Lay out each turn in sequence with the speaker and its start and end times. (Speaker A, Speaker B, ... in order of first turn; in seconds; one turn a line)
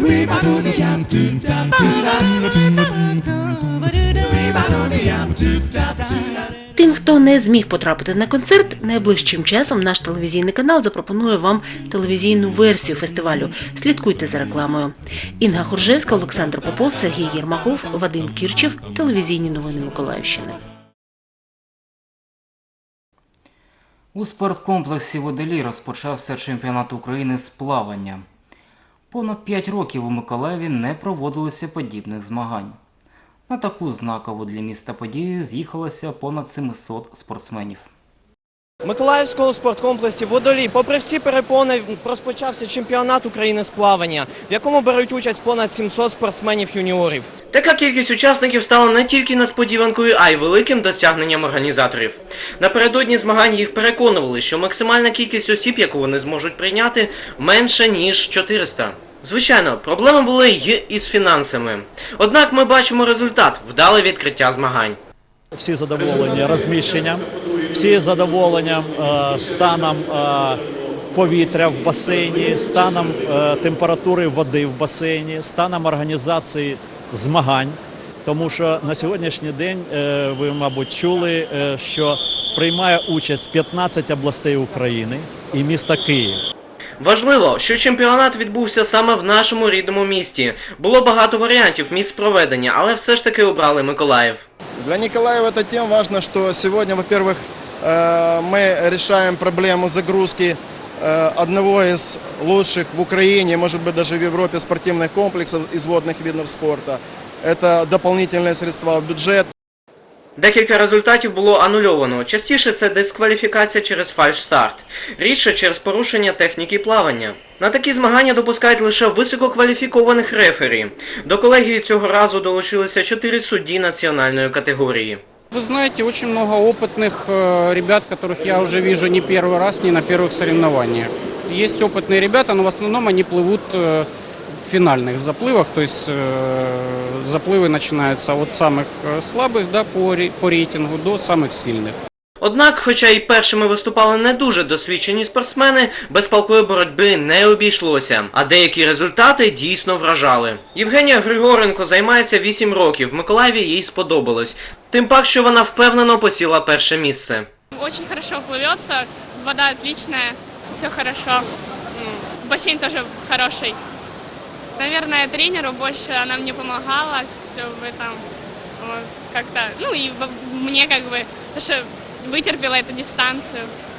Speaker A: 6.7-20.6
Speaker B: 24.1-28.2
Speaker B: 29.1-32.8
Speaker B: 33.5-37.9
Speaker C: 39.5-41.7
Speaker C: 43.0-43.7
Speaker C: 47.5-65.0
Speaker D: 65.5-70.6
Speaker D: 71.1-86.4
Speaker C: 87.0-94.4
Speaker E: 94.8-109.5
Speaker C: 110.4-125.2
Speaker F: 125.5-142.0
Speaker C: 142.4-157.5
Speaker G: 157.7-163.8
Speaker G: 164.8-168.2
Speaker G: 168.8-173.7